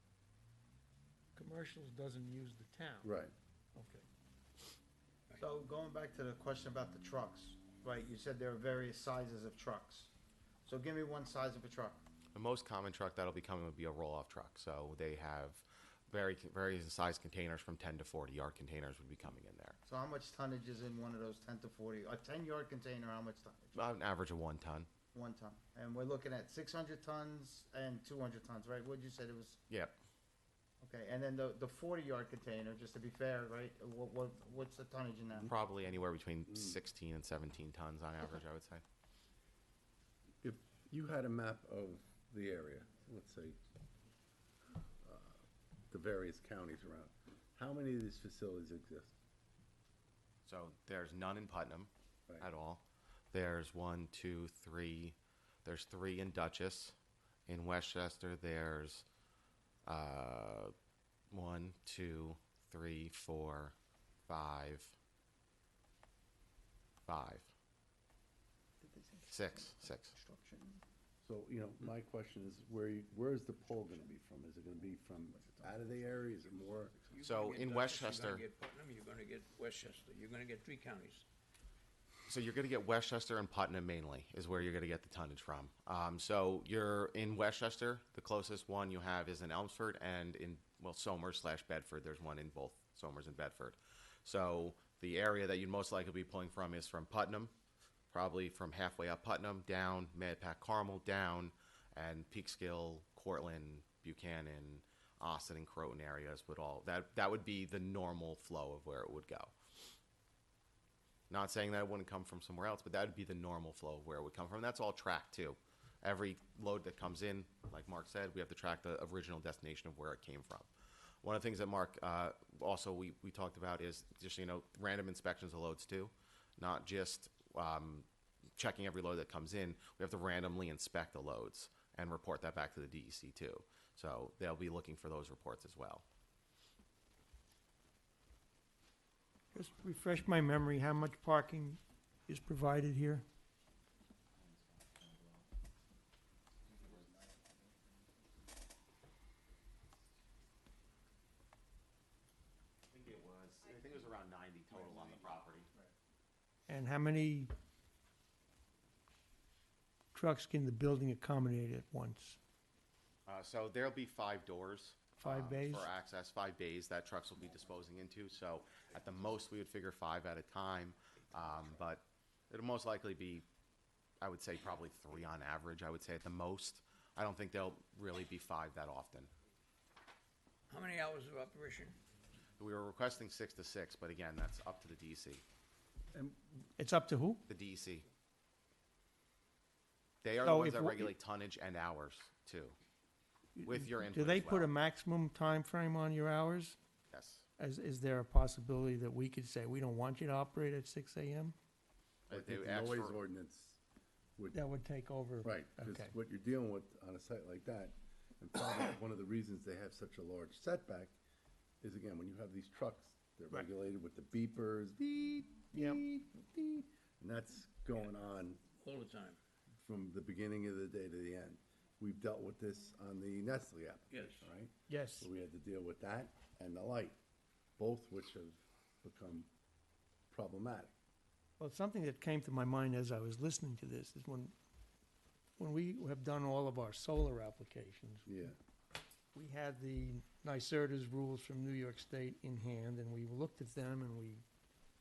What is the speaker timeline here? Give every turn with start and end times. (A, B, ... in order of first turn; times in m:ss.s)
0:01.4-0:03.1 A
0:03.0-0:03.3 B
0:03.8-0:04.0 A
0:05.4-0:10.1 C
0:10.6-0:12.0 C
0:12.4-0:19.8 D
0:19.9-0:23.8 C
0:23.7-0:24.9 D
0:25.1-0:29.6 C
0:30.8-0:35.5 C
0:35.5-0:38.8 D
0:40.4-0:43.6 B
0:45.0-0:49.2 B
0:50.4-0:51.9 D
0:52.4-0:57.0 D
0:57.5-0:59.0 D
0:59.9-1:00.7 D
1:01.3-1:03.8 D
1:04.3-1:05.0 D
1:07.1-1:07.5 D
1:09.3-1:10.2 D
1:11.2-1:17.0 B
1:17.1-1:21.3 E
1:17.2-1:18.4 D
1:22.3-1:37.5 D
1:38.1-1:49.5 D
1:51.3-2:00.7 D
2:01.2-2:08.1 D
2:08.6-2:16.0 D
2:19.5-2:23.2 A
2:24.5-2:25.4 D
2:32.9-2:35.7 D
2:36.7-2:37.5 A
2:40.1-2:42.4 A
2:43.3-2:53.4 D
2:45.2-2:45.9 A
2:54.2-2:59.3 D
3:00.7-3:02.0 E
3:02.6-3:05.4 D
3:06.2-3:07.4 A
3:07.5-3:08.1 D
3:10.2-3:12.8 D
3:10.4-3:11.1 A
3:13.6-3:16.8 A
3:13.6-3:14.7 D
3:17.1-3:17.4 D
3:17.6-3:21.6 A
3:22.3-3:23.2 D
3:22.3-3:23.8 B
3:24.5-3:26.2 A
3:25.4-3:31.2 B
3:31.8-3:38.6 B
3:35.7-3:36.0 A
3:38.8-3:39.4 E
3:39.8-3:47.2 B
3:44.1-3:44.5 E
3:44.9-3:45.3 A
3:47.8-3:49.5 B
3:50.3-3:51.0 B
3:51.6-3:54.5 A
3:55.6-3:58.3 A
3:58.3-3:58.6 B
3:59.3-4:04.4 A